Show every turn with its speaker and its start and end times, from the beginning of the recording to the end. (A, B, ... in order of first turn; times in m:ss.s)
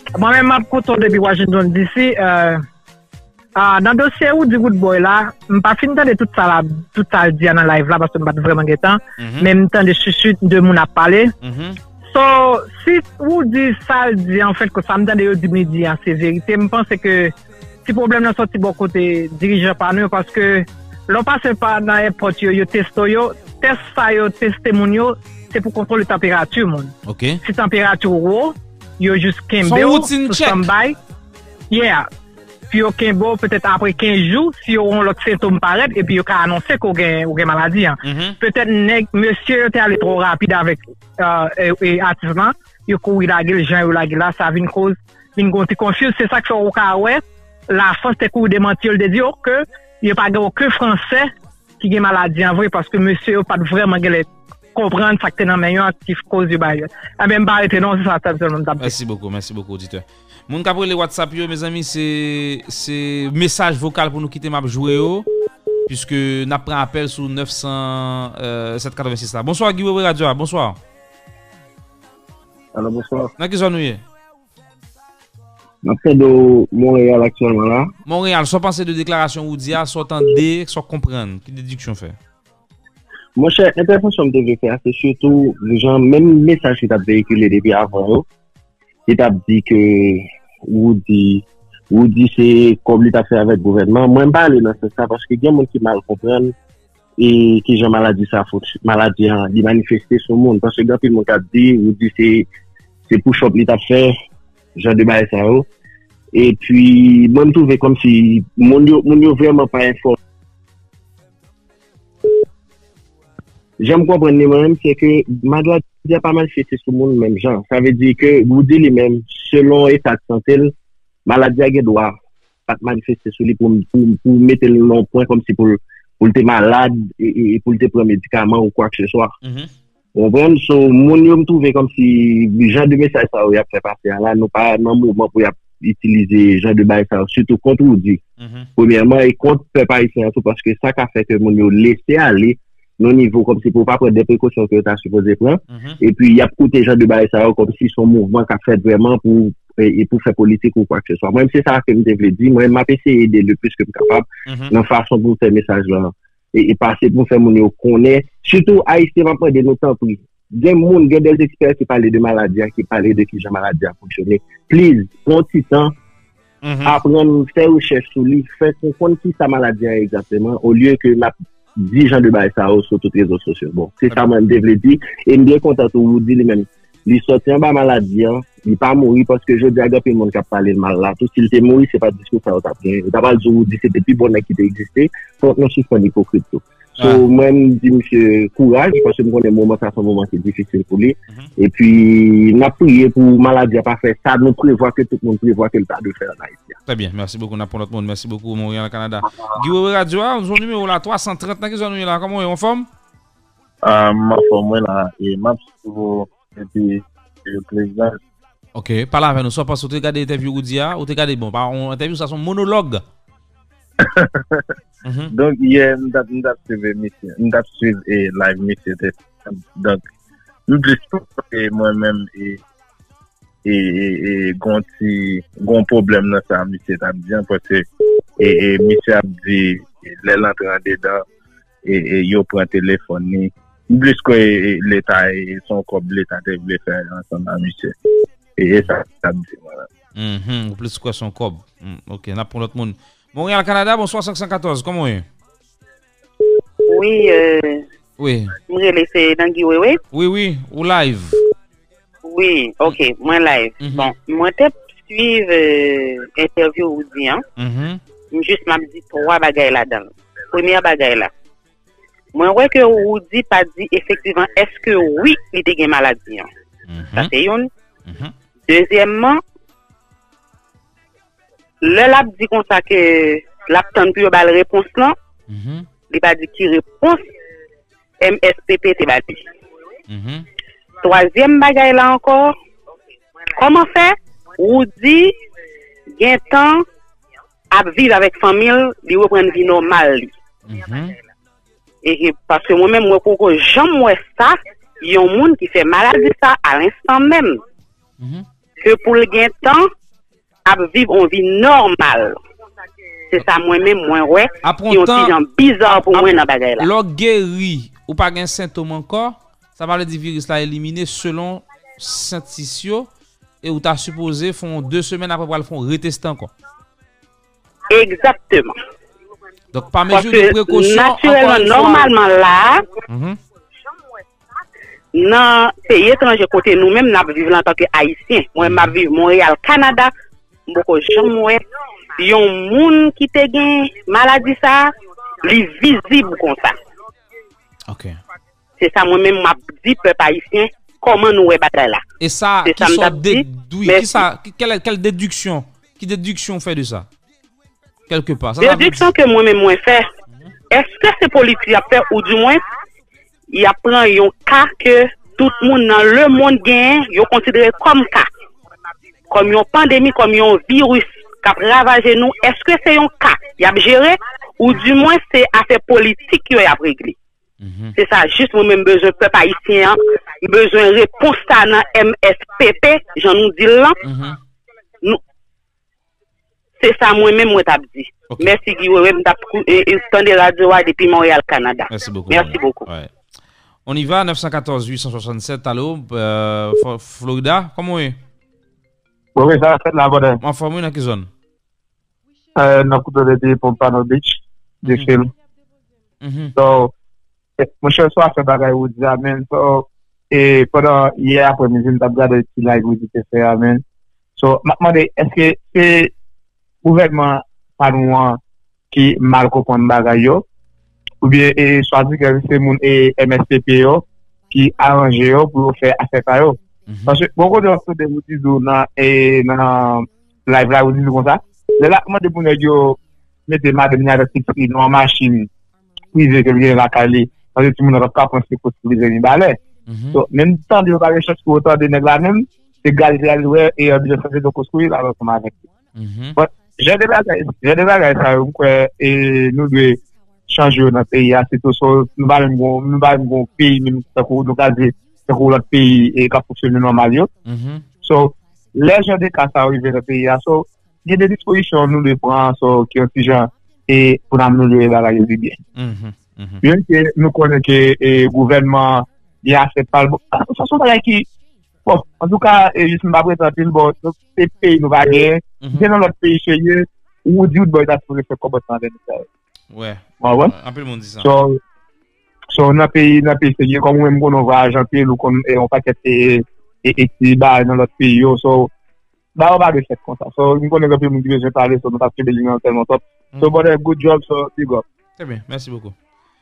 0:00.2-0:02.6 A
0:03.6-0:11.3 A
0:09.2-0:09.5 B
0:11.4-0:11.8 B
0:12.1-0:17.3 A
0:17.8-0:26.9 A
0:27.1-0:27.4 B
0:27.4-0:31.0 A
0:29.6-0:30.7 B
0:31.7-0:32.1 A
0:32.7-0:59.0 A
0:38.0-0:38.4 B
0:58.8-1:05.3 B
1:05.9-1:10.8 B
1:12.7-1:13.3 C
1:13.4-1:14.0 B
1:15.8-1:17.9 C
1:18.1-1:22.2 B
1:23.4-1:28.3 C
1:29.1-1:36.6 C
1:37.2-1:42.5 C
1:43.1-1:44.1 C
1:44.8-1:45.7 C
1:46.3-1:50.2 C
1:53.8-2:00.7 C
2:01.3-2:02.2 C
2:02.7-2:09.3 C
2:09.4-2:09.7 B
2:10.2-2:18.2 C
2:18.4-2:18.7 B
2:18.8-2:46.0 C
2:25.7-2:26.0 B
2:34.5-2:34.7 B
2:46.6-2:47.0 B
2:46.8-3:16.8 C
3:07.0-3:07.2 B
3:16.9-3:22.9 B
3:23.8-3:28.2 D
3:28.8-3:33.0 B
3:34.0-3:34.6 D
3:35.0-3:35.3 B
3:35.3-3:40.0 D
3:40.7-3:42.6 D
3:43.6-3:47.9 D
3:48.4-3:51.2 D
3:51.8-3:57.9 D
3:58.6-3:59.9 D
4:00.2-4:05.3 B
4:06.9-4:07.8 E
4:08.2-4:08.6 B
4:08.7-4:10.0 E
4:10.1-4:11.4 B
4:12.2-4:17.4 E
4:13.8-4:14.1 B
4:17.6-4:18.0 B
4:18.3-4:21.3 E
4:22.3-4:26.5 E
4:26.9-4:27.3 B
4:27.1-4:27.7 E
4:28.1-4:28.3 B
4:28.7-4:29.4 E
4:31.8-4:35.2 E
4:35.5-4:35.9 B
4:36.1-4:37.3 E
4:38.2-4:39.4 E
4:40.1-4:40.4 B
4:41.0-4:42.6 E
4:43.5-4:45.4 E
4:46.2-4:46.8 E
4:47.7-4:50.3 E
4:50.7-4:51.2 B
4:52.0-4:57.6 E
4:58.2-4:58.4 B
4:58.8-4:59.9 E
5:00.6-5:02.4 E
5:03.3-5:06.9 E
5:04.6-5:13.1 B
5:13.6-5:16.5 B
5:17.9-5:18.7 E
5:19.7-5:22.1 B
5:20.1-5:22.9 E
5:23.1-5:23.4 B
5:25.1-5:30.1 E
5:28.6-5:28.9 B
5:30.7-5:31.6 E
5:32.2-5:36.8 E
5:37.9-5:38.2 B
5:38.8-5:42.0 E
5:42.2-5:47.1 B
5:42.6-5:44.2 E
5:48.1-5:49.1 B
5:48.6-5:50.1 E
5:50.7-5:52.6 E
5:53.5-5:58.3 E
5:59.3-6:07.2 E
6:07.6-6:07.9 B
6:08.0-6:14.0 E
6:14.0-6:14.4 B
6:16.8-6:22.8 E
6:21.9-6:23.1 B
6:23.9-6:28.2 B
6:29.4-6:30.4 F
6:30.4-6:31.3 B
6:32.6-6:35.3 F
6:34.9-6:35.1 B
6:36.2-6:36.5 B
6:36.6-6:36.9 F
6:37.6-6:43.8 F
6:44.4-6:46.1 F
6:46.8-6:48.4 F
6:48.9-6:50.4 F
6:51.2-7:05.5 F
6:56.9-6:57.2 B
7:06.1-7:09.6 F
7:09.9-7:10.2 B
7:10.1-7:15.6 F
7:16.0-7:16.4 B
7:16.4-7:27.3 F
7:27.4-7:27.8 B
7:28.0-7:35.6 F
7:35.7-7:36.6 B
7:36.6-7:41.3 F
7:41.9-7:49.3 F
7:45.6-7:45.9 B
7:49.7-7:51.3 B
7:50.2-7:50.5 F
7:51.2-7:51.6 F
7:52.5-7:58.7 F
7:59.4-8:04.8 F
8:05.2-8:06.0 B